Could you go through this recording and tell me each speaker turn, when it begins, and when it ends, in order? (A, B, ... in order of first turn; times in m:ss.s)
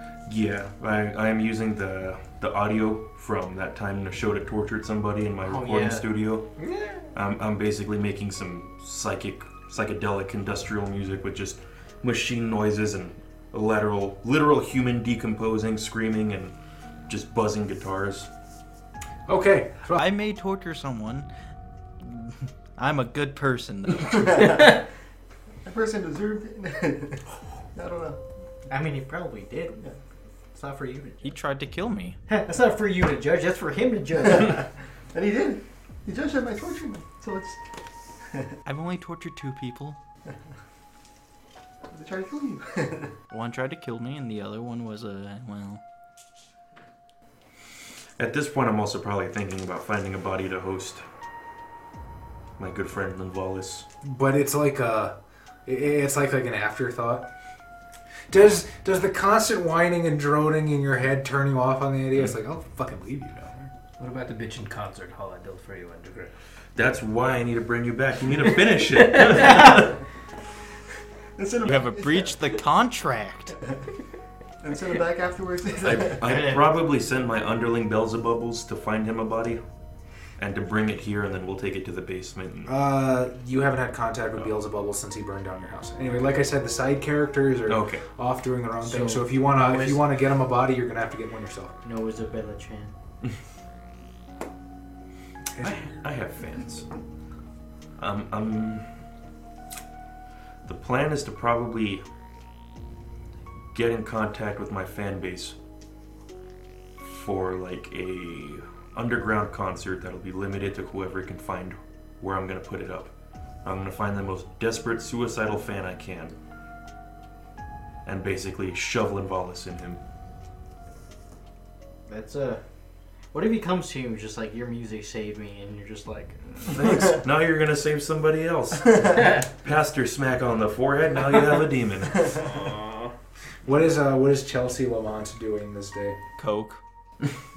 0:00.3-0:06.5 A
0:05.4-0:06.1 B
0:06.6-0:07.0 C
0:07.1-0:16.5 A
0:17.1-0:18.3 A
0:19.3-0:20.0 D
0:19.9-0:21.3 E
0:22.0-0:24.7 E
0:24.0-0:24.8 F
0:25.6-0:27.2 F
0:27.7-0:28.2 F
0:28.7-0:29.9 B
0:30.5-0:31.4 B
0:31.2-0:32.2 E
0:32.3-0:34.6 B
0:34.2-0:37.6 F
0:38.2-0:38.6 F
0:38.6-0:40.0 E
0:41.9-0:43.1 F
0:43.3-0:45.8 E
0:48.2-0:51.0 A
0:52.6-0:53.8 A
0:54.0-0:57.3 D
0:58.3-1:03.7 D
1:04.0-1:06.4 C
1:06.7-1:10.0 A
1:11.4-1:12.3 F
1:11.6-1:13.6 E
1:14.6-1:16.2 F
1:15.8-1:19.6 A
1:16.2-1:16.6 B
1:20.4-1:22.7 A
1:22.6-1:31.7 D
1:27.7-1:28.0 A
1:28.8-1:30.0 B
1:31.8-1:32.9 B
1:35.5-1:35.8 D
1:35.6-1:36.9 A
1:38.0-1:38.9 A
1:40.6-1:42.0 A
1:43.7-1:45.6 A
1:47.0-1:53.1 A
1:53.6-1:56.3 A
1:58.0-2:00.0 A
2:02.1-2:02.6 B
2:03.3-2:07.1 B
2:06.7-2:12.5 A
2:12.4-2:13.1 C
2:13.6-2:16.2 D
2:16.4-2:16.8 E